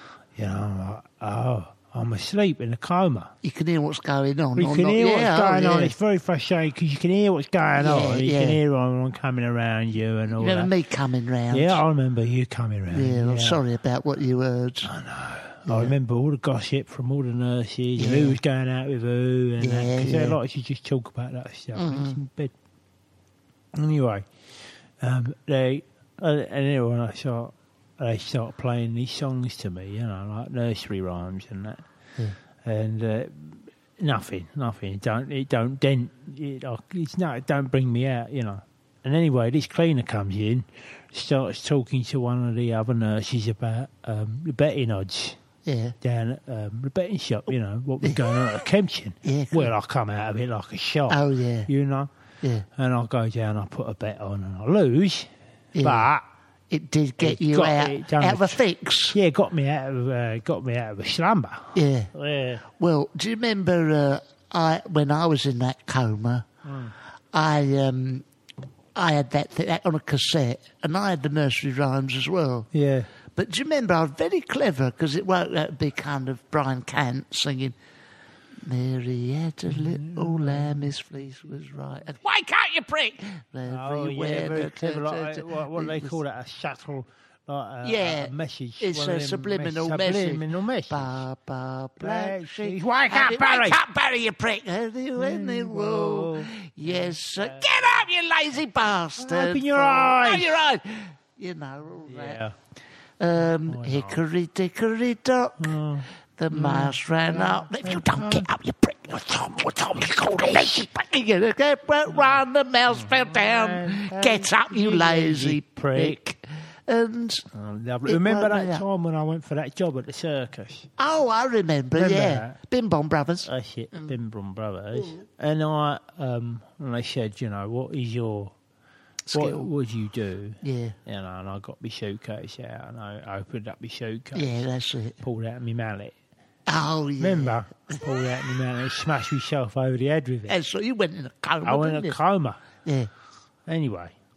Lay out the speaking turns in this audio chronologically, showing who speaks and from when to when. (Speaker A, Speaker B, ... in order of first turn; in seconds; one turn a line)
Speaker A: 0.3-3.3
Speaker B: 3.4-5.9
Speaker A: 4.5-10.7
Speaker B: 7.8-8.6
Speaker B: 10.3-11.8
Speaker A: 11.5-13.6
Speaker B: 12.9-14.9
Speaker A: 14.8-22.5
Speaker B: 15.7-15.9
Speaker B: 18.0-18.4
Speaker B: 19.6-20.4
Speaker B: 21.7-22.2
Speaker A: 23.7-24.3
Speaker A: 25.0-31.8
Speaker A: 32.6-45.4
Speaker B: 45.6-46.0
Speaker A: 46.0-52.1
Speaker B: 49.2-49.7
Speaker B: 51.1-51.7
Speaker B: 52.4-52.7
Speaker A: 52.8-56.2
Speaker B: 55.7-56.1
Speaker B: 56.7-59.2
Speaker A: 57.2-58.6
Speaker A: 59.1-62.6
Speaker B: 61.7-62.1
Speaker B: 62.6-66.5
Speaker A: 66.6-66.9
Speaker B: 67.3-68.2
Speaker B: 68.9-72.7
Speaker A: 72.7-73.1
Speaker B: 73.3-77.8
Speaker B: 78.6-86.2
Speaker A: 79.7-80.9
Speaker A: 83.7-91.2
Speaker B: 87.8-102.4
Speaker A: 92.0-93.8
Speaker A: 95.2-97.6
Speaker A: 99.2-100.6
Speaker A: 102.1-102.5
Speaker B: 103.2-105.7
Speaker A: 103.7-104.2
Speaker A: 105.6-108.5
Speaker B: 106.4-117.4
Speaker A: 109.7-110.8
Speaker A: 112.9-116.2
Speaker A: 117.5-120.9
Speaker B: 118.0-118.8
Speaker B: 121.0-124.1
Speaker A: 121.9-122.6
Speaker A: 123.4-128.5
Speaker B: 129.3-129.7
Speaker A: 129.3-134.6
Speaker B: 130.6-131.0
Speaker B: 134.3-135.2
Speaker A: 135.2-136.1
Speaker B: 136.7-137.6
Speaker A: 137.2-140.6
Speaker B: 140.5-142.2
Speaker A: 141.6-142.6
Speaker B: 142.8-143.1
Speaker A: 143.7-144.1